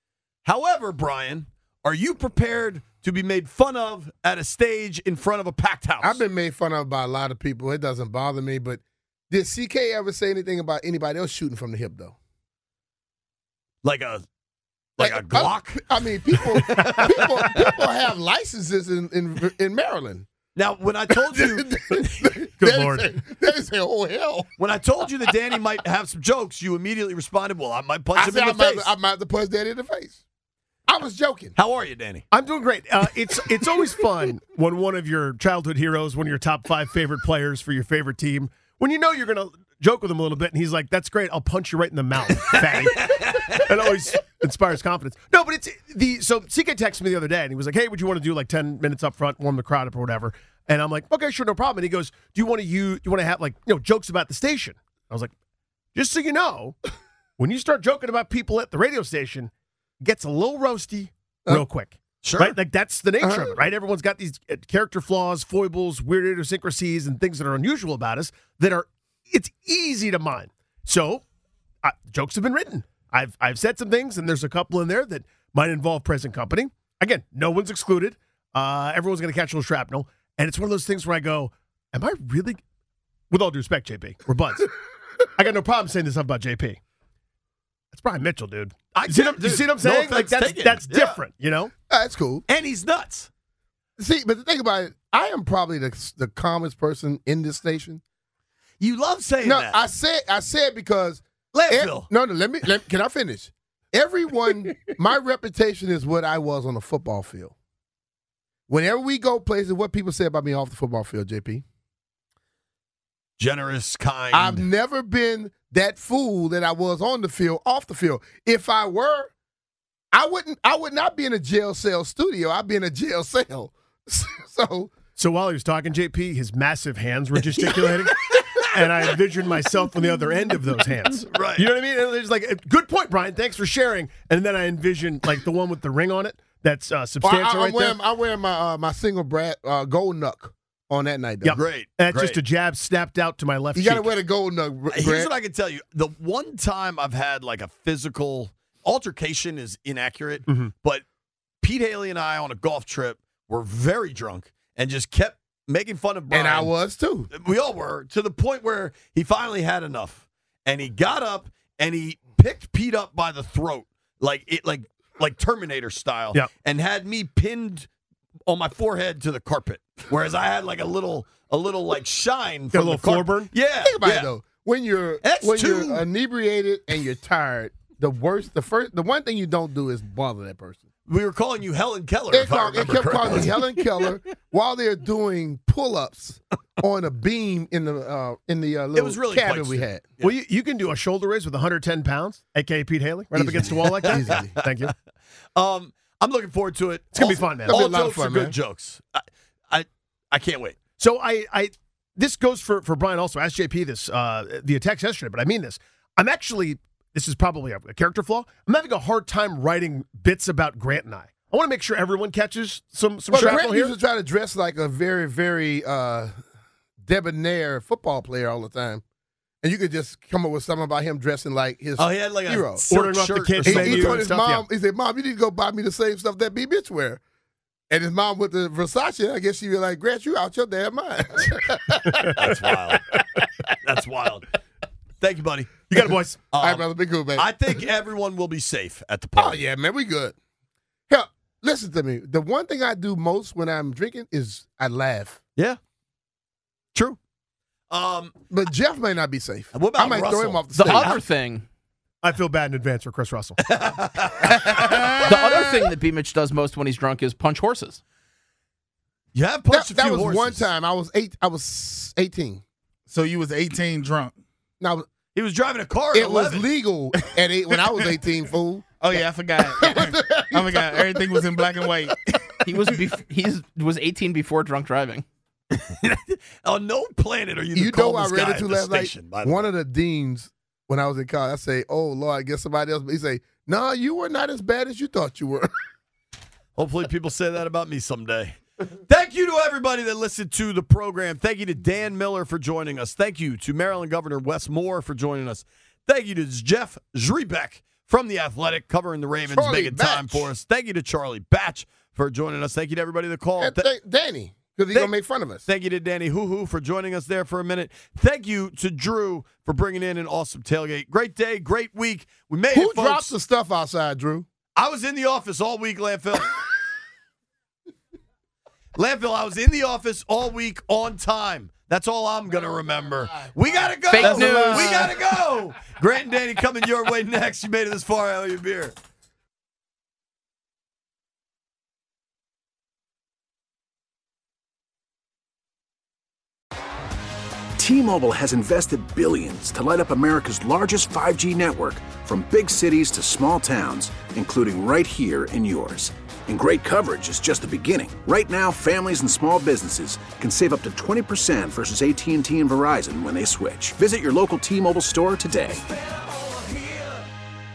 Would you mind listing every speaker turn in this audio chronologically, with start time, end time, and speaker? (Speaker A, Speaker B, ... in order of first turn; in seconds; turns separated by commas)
Speaker A: 0.4-6.2, Speaker B: 6.0-12.1, Speaker A: 13.8-14.2, Speaker A: 15.0-15.8, Speaker B: 15.0-20.3, Speaker A: 16.4-17.7, Speaker A: 20.5-21.7, Speaker B: 21.3-24.5, Speaker C: 22.6-23.1, Speaker A: 24.6-28.9, Speaker B: 28.1-30.2, Speaker B: 30.9-31.5, Speaker A: 31.5-32.2, Speaker C: 32.3-55.3, Speaker A: 42.8-43.6, Speaker C: 55.9-56.8, Speaker C: 57.4-71.2, Speaker A: 62.2-62.6, Speaker B: 63.2-63.5, Speaker C: 71.8-82.6, Speaker C: 83.3-84.7, Speaker C: 85.3-86.8, Speaker C: 87.9-91.7, Speaker A: 88.9-91.2, Speaker B: 91.9-92.4, Speaker A: 92.5-93.3, Speaker B: 94.0-98.0, Speaker A: 98.8-99.8, Speaker B: 99.4-107.5, Speaker A: 101.5-102.1, Speaker B: 108.7-111.6, Speaker A: 113.4-114.6, Speaker B: 114.3-119.3, Speaker B: 120.1-124.9, Speaker C: 125.2-138.0, Speaker A: 128.1-128.6, Speaker A: 131.3-131.7, Speaker B: 137.2-141.6, Speaker C: 141.4-144.1, Speaker A: 141.5-142.4, Speaker B: 143.7-145.3, Speaker A: 144.9-151.0, Speaker A: 151.6-156.7, Speaker B: 156.3-157.3, Speaker A: 157.3-167.9, Speaker A: 168.5-174.3, Speaker C: 172.7-173.5, Speaker B: 173.8-180.8, Speaker A: 175.2-176.0, Speaker A: 181.1-183.7, Speaker B: 182.3-190.0, Speaker A: 188.9-190.3, Speaker C: 190.2-194.9, Speaker B: 193.3-194.6, Speaker A: 195.5-200.8, Speaker C: 197.1-197.9, Speaker B: 197.2-198.6, Speaker C: 201.0-213.9, Speaker B: 213.3-216.3, Speaker B: 217.0-219.0, Speaker B: 219.6-222.8, Speaker A: 222.0-224.2, Speaker C: 222.9-224.6, Speaker B: 223.6-227.2, Speaker B: 227.9-232.5, Speaker A: 232.4-233.0, Speaker A: 233.8-234.5, Speaker A: 235.2-235.7, Speaker C: 235.9-236.4, Speaker A: 236.5-239.6, Speaker B: 236.6-237.5, Speaker B: 239.4-240.3, Speaker B: 241.1-245.4, Speaker A: 247.9-248.3, Speaker B: 248.5-251.2, Speaker A: 249.7-251.2, Speaker D: 250.7-251.7, Speaker C: 252.2-253.6, Speaker A: 253.7-255.6, Speaker D: 255.2-258.0, Speaker A: 259.3-260.6, Speaker B: 259.7-262.6, Speaker E: 263.1-264.4, Speaker B: 264.8-265.1, Speaker A: 265.3-266.7, Speaker B: 266.1-268.9, Speaker E: 269.0-272.2, Speaker B: 269.6-271.9, Speaker D: 272.7-275.2, Speaker A: 275.7-279.7, Speaker B: 277.7-285.7, Speaker A: 286.8-303.9, Speaker B: 299.5-300.5, Speaker B: 303.6-305.6, Speaker A: 305.6-313.3, Speaker B: 312.7-314.4, Speaker A: 314.8-316.5, Speaker A: 318.9-328.9, Speaker D: 324.1-325.1, Speaker B: 324.1-325.1, Speaker F: 337.8-355.8